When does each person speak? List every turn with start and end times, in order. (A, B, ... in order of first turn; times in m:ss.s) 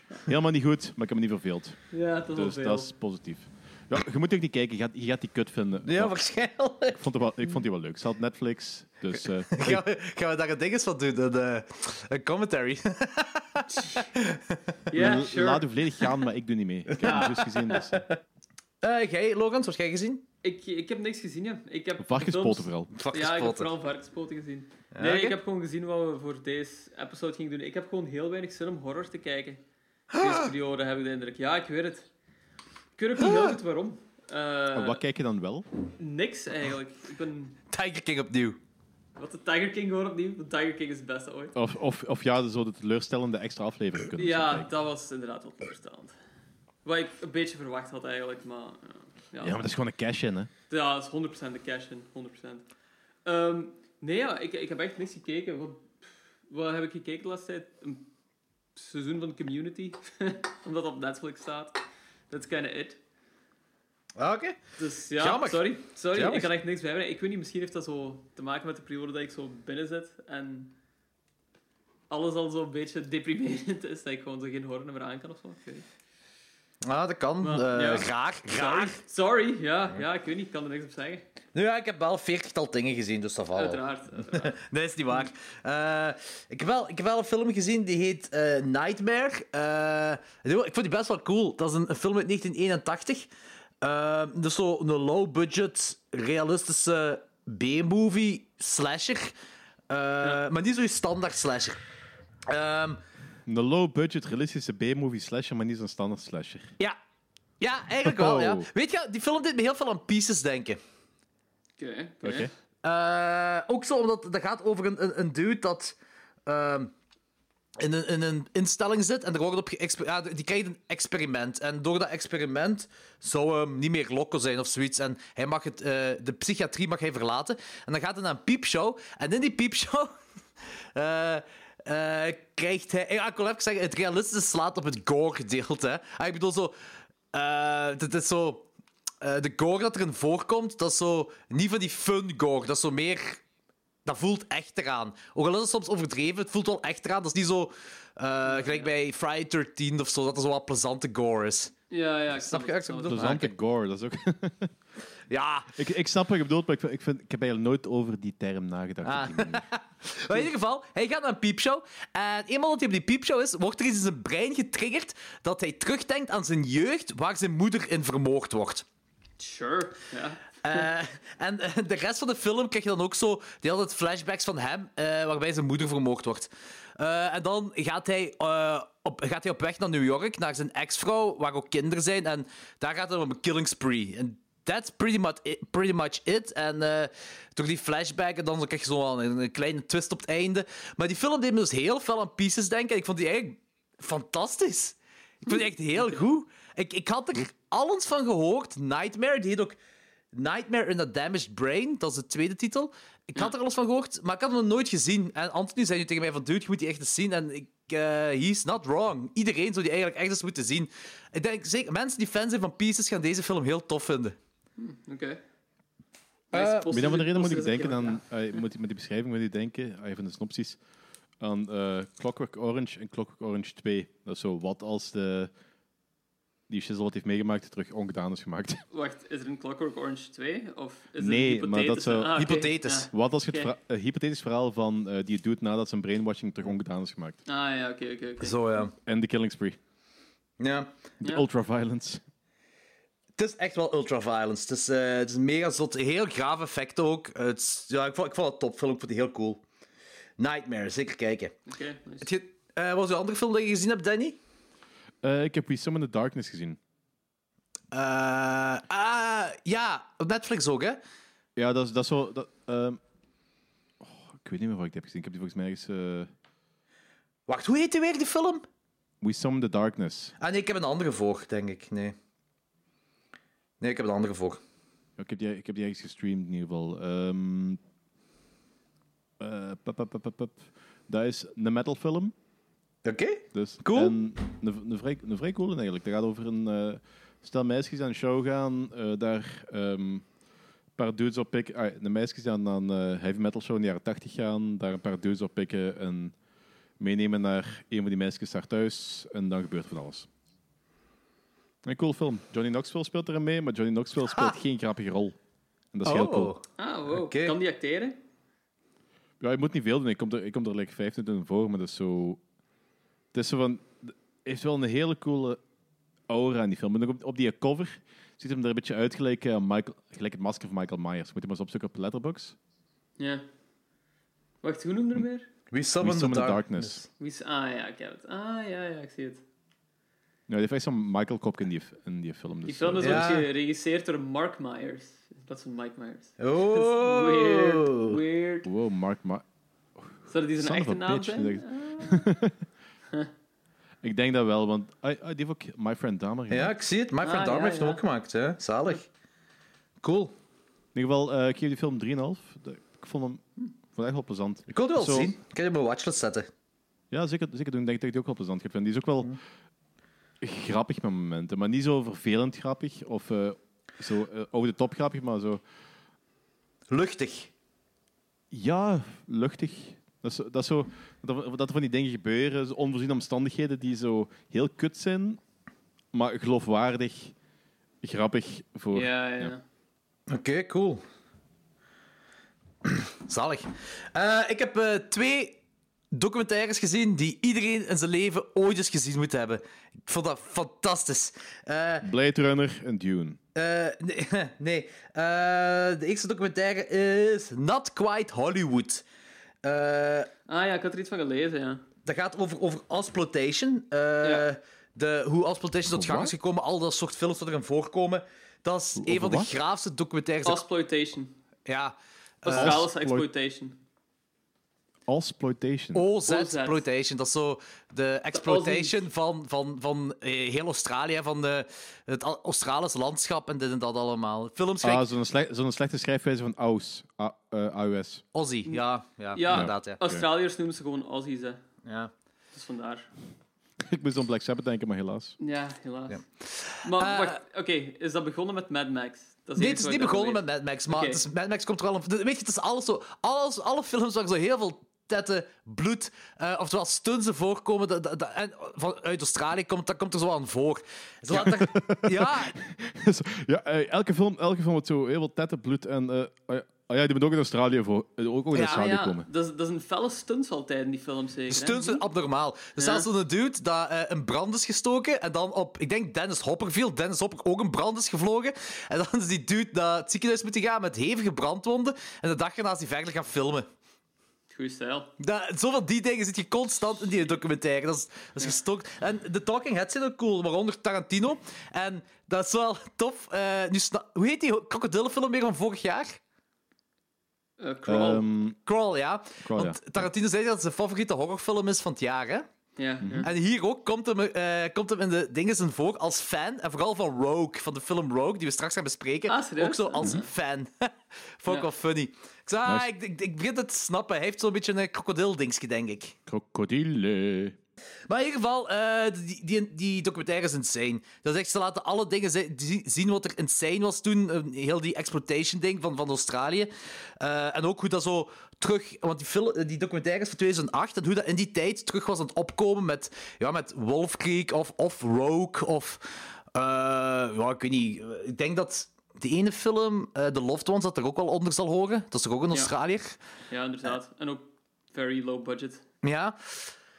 0:00.2-0:01.8 A
0:01.9-0:02.9 B
0:02.3-0:06.2 A
0:05.8-0:07.0 C
0:06.9-0:09.8 A
0:09.5-0:14.9 C
0:13.8-0:14.1 B
0:14.9-0:15.7 B
0:14.9-0:18.0 A
0:17.0-0:17.8 B
0:18.8-0:20.2 C
0:20.4-0:29.6 B
0:22.0-0:22.9 A
0:22.9-0:23.7 C
0:24.9-0:25.4 C
0:30.1-0:30.5 C
0:30.2-0:32.1 B
0:33.0-0:35.0 B
0:33.2-0:33.5 C
0:34.7-0:35.6 A
0:36.0-0:37.6 B
0:37.7-0:38.6 C
0:39.2-0:41.6 B
0:41.5-0:44.7 A
0:44.2-0:46.1 B
0:46.8-0:49.6 B
0:49.4-0:50.5 A
0:50.7-0:52.6 B
0:53.2-0:58.1 B
0:58.8-1:01.8 B
1:02.3-1:03.0 B
1:04.2-1:04.6 C
1:04.8-1:10.7 B
1:05.2-1:06.5 C
1:12.1-1:15.8 B
1:16.8-1:19.0 C
1:17.4-1:21.2 B
1:21.5-1:33.3 C
1:23.5-1:24.5 B
1:33.8-1:39.3 C
1:39.9-1:41.8 C
1:42.5-1:43.0 C
1:43.5-1:46.7 A
1:47.6-1:50.8 C
1:48.0-1:48.7 A
1:51.8-1:52.5 B
1:52.2-1:52.5 A
1:52.8-1:56.9 C
1:57.8-2:10.1 C
2:10.9-2:16.8 C
2:17.3-2:18.7 C
2:19.2-2:23.4 C
2:24.0-2:31.7 C
2:28.4-2:28.9 B
2:31.9-2:33.3 B
2:32.4-2:33.6 C
2:33.0-2:34.7 A
2:35.3-2:35.7 C
2:35.7-2:39.6 A
2:39.0-2:48.8 C
2:49.4-2:50.8 B
2:50.6-3:19.8 C
3:20.3-3:34.4 C
3:34.8-3:35.4 B
3:36.5-3:38.2 B
3:36.5-3:36.8 C
3:36.8-3:40.8 A
3:41.4-3:45.5 A
3:46.7-3:48.8 A
3:48.9-3:53.7 B
3:51.2-3:52.5 A
3:52.3-3:53.1 C
3:53.1-3:57.4 A
3:57.5-3:58.6 B
3:58.4-3:58.9 C
3:59.0-3:59.8 A
4:00.6-4:00.9 C
4:01.2-4:02.2 A
4:03.4-4:09.6 C
4:10.4-4:11.6 C
4:11.7-4:12.3 B
4:12.2-4:14.4 C
4:15.2-4:16.8 A
4:17.9-4:21.0 C
4:21.6-4:23.0 A
4:24.0-4:26.3 A
4:27.5-4:28.6 C
4:29.2-4:30.3 A
4:30.4-4:32.1 C
4:33.8-4:34.6 C
4:35.2-4:37.8 A
4:39.4-4:42.3 A
4:43.0-4:44.1 C
4:43.5-4:50.2 A
4:51.0-4:56.3 A
4:57.0-5:00.3 A
5:01.8-5:05.4 A
5:05.9-5:06.5 A
5:06.0-5:07.6 C
5:06.8-5:08.2 B
5:09.4-5:12.4 A
5:13.3-5:15.6 A
5:16.3-5:22.6 A
5:23.2-5:23.4 B
5:24.6-5:25.5 B
5:25.7-5:27.0 C
5:26.0-5:27.0 A
5:27.2-5:29.4 B
5:30.5-5:33.3 A
5:32.6-5:38.7 B
5:33.0-5:33.5 C
5:36.4-5:38.2 C
5:38.6-5:39.4 A
5:40.0-5:42.6 A
5:40.3-5:42.4 B
5:44.0-5:46.7 A
5:46.5-5:49.0 C
5:47.2-5:48.0 B
5:50.0-5:50.3 C
5:50.9-5:55.3 A
5:54.7-5:56.5 C
5:57.1-5:59.3 A
6:00.4-6:05.6 A
6:06.9-6:07.5 C
6:08.5-6:15.4 A
6:16.1-6:17.3 A
6:18.0-6:19.5 A
6:18.9-6:19.6 B
6:20.3-6:21.0 C
6:22.8-6:25.6 C
6:26.1-6:32.1 C
6:32.0-6:33.4 A
6:33.5-6:39.0 C
6:39.6-6:40.3 C
6:40.5-6:41.8 B
6:42.0-6:50.6 C
6:45.9-6:46.3 A
6:49.0-6:49.5 A
6:50.4-6:51.3 B
6:51.7-6:52.8 C
6:52.4-6:53.8 B
6:52.5-6:53.3 A
6:55.1-6:56.0 A
6:55.9-7:05.0 C
6:56.2-6:56.8 B
6:58.3-6:59.0 B
7:04.8-7:08.2 A
7:08.3-7:10.0 C
7:09.3-7:11.6 B
7:09.5-7:10.2 A
7:11.8-7:12.1 C
7:12.5-7:13.1 B
7:13.8-7:15.4 A
7:15.4-7:16.2 B
7:16.1-7:17.4 C
7:16.8-7:21.2 B
7:19.6-7:32.6 C
7:31.3-7:39.2 A
7:38.5-7:38.8 C
7:38.6-7:42.0 B
7:41.5-7:53.7 C
7:42.8-7:43.1 B
7:54.5-7:55.1 B
7:55.2-8:06.2 C
8:07.6-8:08.3 B
8:07.8-8:08.6 A
8:08.6-8:12.5 C
8:09.4-8:10.1 A
8:12.8-8:13.3 B
8:13.0-8:13.3 A
8:13.2-8:26.2 C
8:19.3-8:20.3 B
8:22.6-8:22.9 A
8:26.3-8:27.6 A
8:28.1-8:53.2 C
8:53.5-8:55.8 B
8:56.0-8:56.7 C